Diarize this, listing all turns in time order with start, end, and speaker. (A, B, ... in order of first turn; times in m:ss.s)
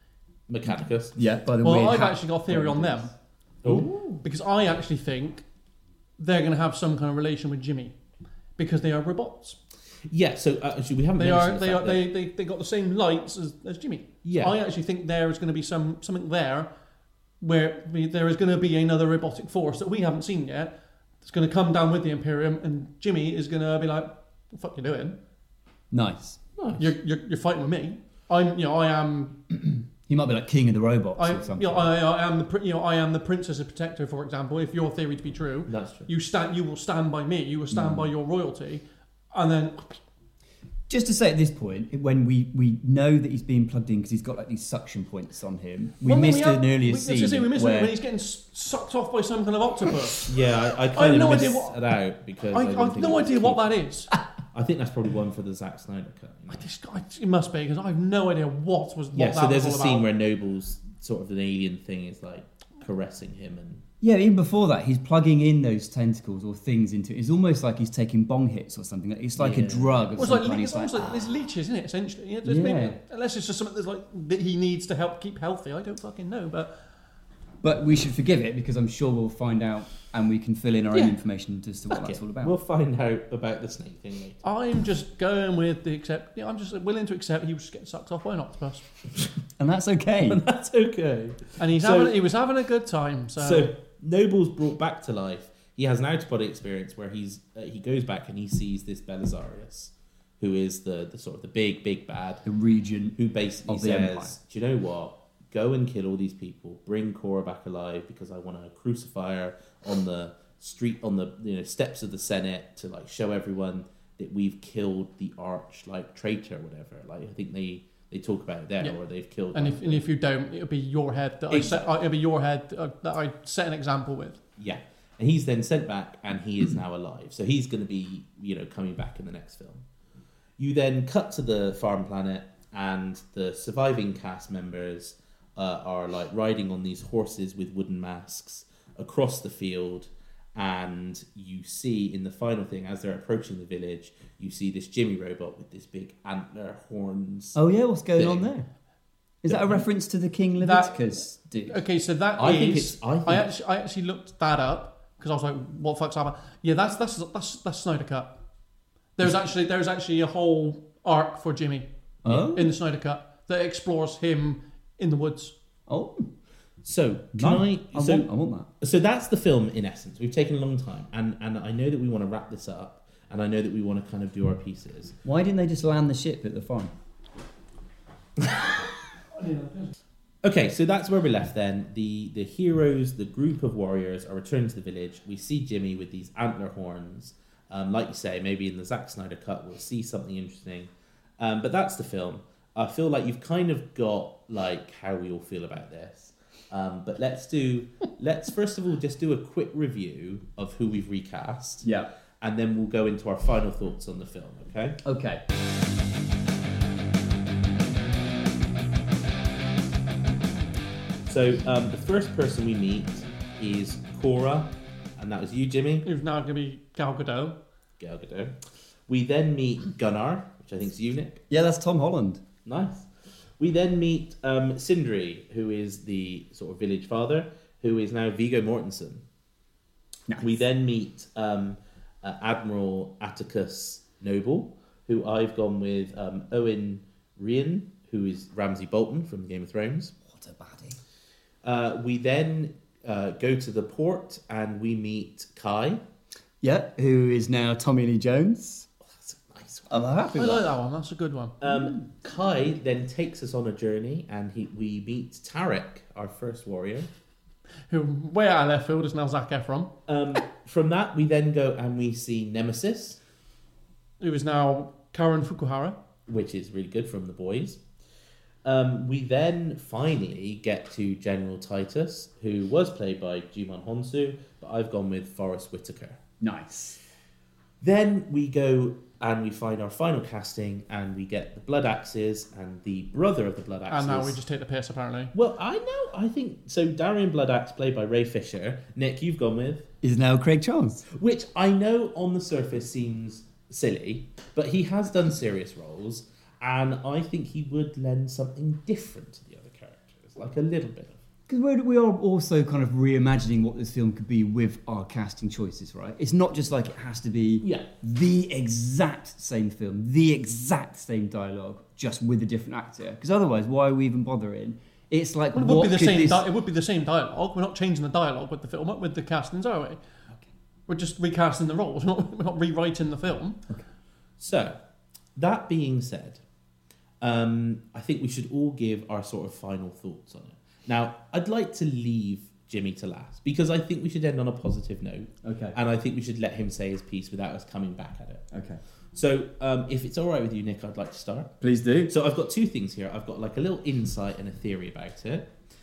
0:00.5-0:01.2 A
0:01.2-0:03.1 B
0:01.6-0:03.1 C
0:03.6-0:04.2 A
0:04.2-0:05.4 C
0:06.2-0:08.0 C
0:08.6-0:09.6 C
0:10.1-0:12.1 A
0:11.2-0:16.7 C
0:14.2-0:14.6 A
0:17.4-0:25.2 C
0:25.9-0:26.4 B
0:26.6-0:26.9 A
0:26.8-0:29.4 C
0:29.5-0:31.9 B
0:31.2-0:40.0 C
0:35.7-0:36.1 A
0:37.7-0:38.1 B
0:40.9-0:47.9 B
0:46.0-0:50.3 C
0:50.3-0:53.7 A
0:50.9-0:51.8 C
0:52.5-0:54.1 C
0:54.5-0:56.7 A
0:56.5-1:00.1 C
0:59.1-1:03.8 A
1:04.0-1:11.3 B
1:09.4-1:10.2 A
1:10.2-1:16.7 C
1:12.4-1:13.0 B
1:17.6-1:22.5 B
1:21.9-1:24.4 A
1:24.4-1:28.9 C
1:29.6-1:30.4 B
1:30.3-1:32.2 A
1:31.6-1:33.7 C
1:33.4-1:42.4 A
1:42.4-1:44.4 B
1:43.2-2:00.0 A
1:59.5-2:04.4 C
2:01.5-2:01.9 A
2:04.6-2:09.8 A
2:10.6-2:27.6 A
2:27.6-2:28.7 B
2:28.2-2:28.5 A
2:29.4-2:31.8 B
2:29.5-2:29.8 A
2:30.6-2:31.1 C
2:31.7-2:38.4 C
2:32.4-2:33.5 A
2:39.2-2:41.9 C
2:42.2-2:42.7 B
2:42.5-2:45.5 C
2:45.9-2:46.3 B
2:46.8-2:48.3 A
2:47.4-2:48.7 B
2:48.8-2:55.2 A
2:55.2-2:56.9 B
2:59.3-2:59.9 C
3:00.4-3:21.9 A
3:21.8-3:22.1 B
3:22.4-3:25.0 A
3:25.0-3:25.4 B
3:31.2-3:36.1 A
3:36.0-3:37.6 C
3:38.0-3:41.4 A
3:41.5-3:42.4 B
3:42.7-3:49.2 A
3:50.3-3:50.6 B
3:50.4-4:00.1 A
4:00.2-4:01.0 B
4:01.6-4:06.0 A
4:06.6-4:08.9 B
4:09.0-4:10.6 A
4:09.9-4:10.6 B
4:10.4-4:11.6 C
4:11.6-4:17.1 A
4:17.9-4:19.9 C
4:20.1-4:23.2 A
4:24.2-4:26.0 C
4:26.3-4:27.8 A
4:28.6-4:36.2 A
4:36.4-4:37.0 B
4:37.8-4:44.4 A
4:43.9-4:45.3 C
4:45.3-4:49.9 A
4:50.0-4:51.0 B
4:51.1-5:01.2 A
5:01.5-5:16.4 B
5:07.6-5:07.9 A
5:15.5-5:20.0 C
5:20.9-5:23.6 C
5:24.4-5:24.8 A
5:25.4-5:26.4 A
5:27.2-5:38.5 A
5:35.4-5:35.8 B
5:38.5-5:38.8 B
5:39.1-5:45.5 A
5:41.6-5:42.1 B